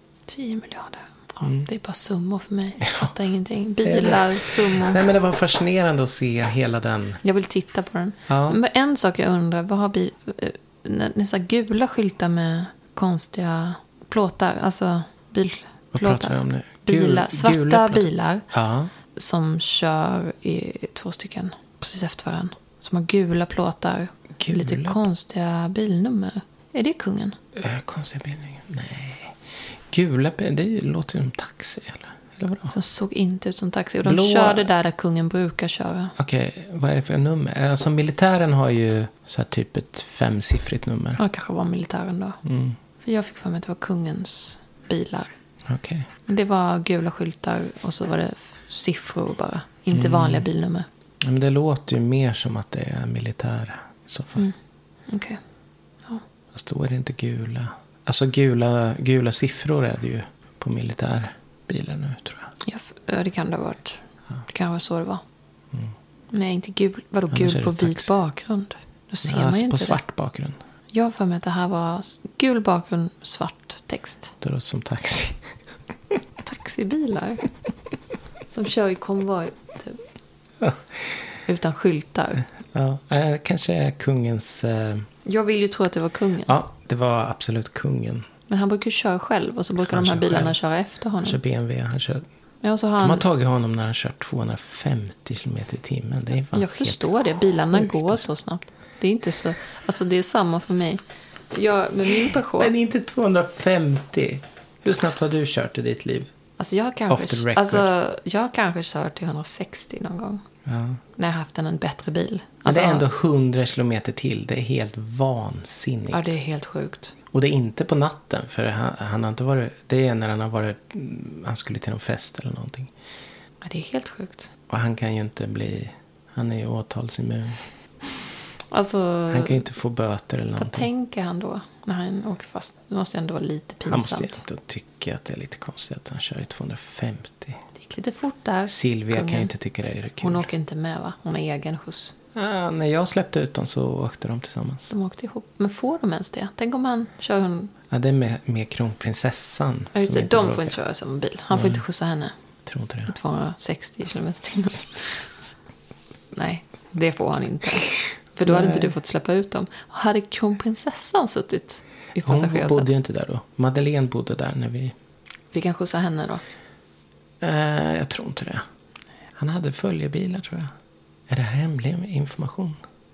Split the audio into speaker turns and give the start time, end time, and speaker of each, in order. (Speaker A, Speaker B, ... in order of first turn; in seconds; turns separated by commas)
Speaker A: 0.3-5.0, Speaker B: 3.8-7.2, Speaker A: 7.2-18.4, Speaker B: 8.3-8.6, Speaker B: 15.9-18.9, Speaker A: 19.1-27.4, Speaker B: 24.4-25.0, Speaker B: 27.5-29.4, Speaker B: 29.9-32.7, Speaker A: 32.7-36.1, Speaker B: 34.0-34.7, Speaker B: 36.2-41.2, Speaker A: 41.2-42.4, Speaker B: 42.4-42.8, Speaker A: 43.0-45.3, Speaker B: 45.6-46.1, Speaker A: 46.2-50.9, Speaker B: 49.9-50.5, Speaker B: 51.2-54.5, Speaker A: 55.1-55.4, Speaker B: 56.5-62.5, Speaker A: 62.6-65.2, Speaker A: 66.3-70.0, Speaker B: 67.3-68.1, Speaker B: 69.2-70.6, Speaker A: 70.9-74.3, Speaker B: 74.4-75.5, Speaker A: 76.4-77.5, Speaker A: 78.5-80.0, Speaker B: 80.6-81.2, Speaker A: 81.5-82.5, Speaker B: 82.7-85.1, Speaker A: 85.2-86.6, Speaker B: 86.5-88.3, Speaker A: 88.5-91.4, Speaker B: 89.8-90.6, Speaker B: 91.2-92.2, Speaker A: 92.6-93.2, Speaker B: 93.0-97.2, Speaker A: 96.5-102.7, Speaker B: 97.7-98.2, Speaker B: 102.6-106.3, Speaker A: 106.6-110.4, Speaker B: 107.1-107.9, Speaker B: 110.6-111.0, Speaker A: 111.2-113.0, Speaker B: 112.7-116.4, Speaker A: 116.1-117.1, Speaker B: 117.3-122.9, Speaker A: 123.6-124.5, Speaker B: 124.7-127.6, Speaker A: 128.7-129.6, Speaker B: 129.3-130.9, Speaker A: 130.6-134.4, Speaker B: 133.9-137.6, Speaker A: 137.8-139.5, Speaker B: 138.7-140.5, Speaker A: 140.2-142.1, Speaker B: 142.3-144.9, Speaker A: 144.9-147.7, Speaker B: 147.9-150.8, Speaker A: 149.9-152.3, Speaker B: 151.5-151.8, Speaker B: 152.7-153.1, Speaker A: 153.1-155.3, Speaker A: 156.3-162.9, Speaker B: 158.4-158.9, Speaker B: 162.2-164.9, Speaker A: 165.5-166.4, Speaker B: 167.4-168.6, Speaker B: 169.3-170.7, Speaker B: 171.3-172.8